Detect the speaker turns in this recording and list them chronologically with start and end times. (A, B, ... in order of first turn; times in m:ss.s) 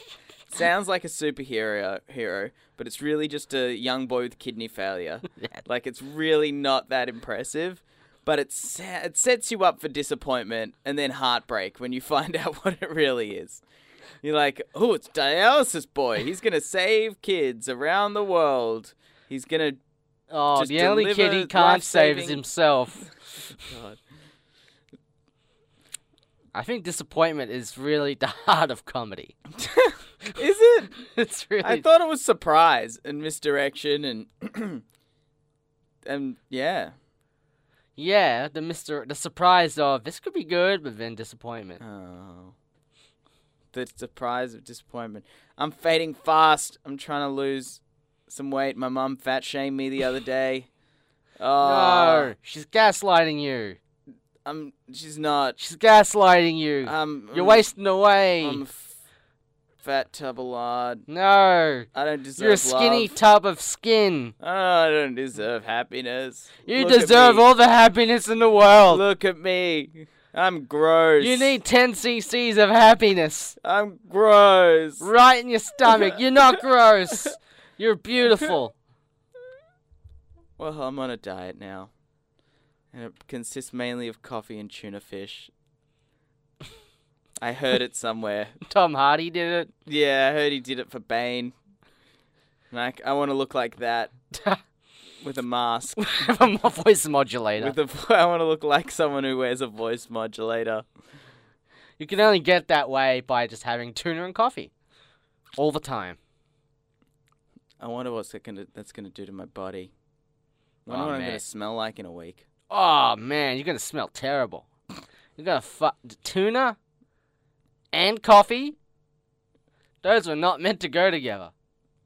0:00.5-0:13.6 A
0:14.2-0:19.8 A
0:20.3-0:23.1 B
0:20.5-0:22.4 A
0:23.6-0:24.0 A
0:26.5-0:29.4 B
0:29.6-0:30.9 A
0:31.0-0:31.8 B
0:31.6-0:34.8 A
0:36.0-0:36.9 A
0:38.0-0:41.8 B
0:41.8-0:42.5 A
0:43.7-0:50.7 A
0:51.4-0:52.3 A
0:51.6-0:53.8 B
0:54.4-0:55.6 A
0:55.6-0:58.6 B
0:56.8-0:57.7 A
0:58.4-0:59.0 A
0:59.8-1:01.0 A
1:01.1-1:04.3 B
1:01.9-1:03.1 A
1:04.4-1:07.5 A
1:06.6-1:09.0 B
1:08.9-1:11.6 A
1:11.2-1:13.6 B
1:13.6-1:15.1 A
1:15.0-1:18.7 B
1:15.8-1:16.2 A
1:20.6-1:21.9 A
1:22.9-1:25.5 A
1:27.4-1:28.6 A
1:28.6-1:29.7 B
1:29.8-1:31.5 A
1:32.7-1:34.1 A
1:34.3-1:34.6 B
1:35.2-1:36.4 A
1:36.0-1:37.8 B
1:37.6-1:40.8 A
1:42.0-1:44.7 B
1:45.6-1:46.2 B
1:47.8-1:49.9 A
1:50.8-1:52.4 A
1:50.9-1:51.4 B
1:52.7-1:54.7 B
1:55.4-1:56.8 B
1:57.9-1:58.8 B
2:00.0-2:01.5 B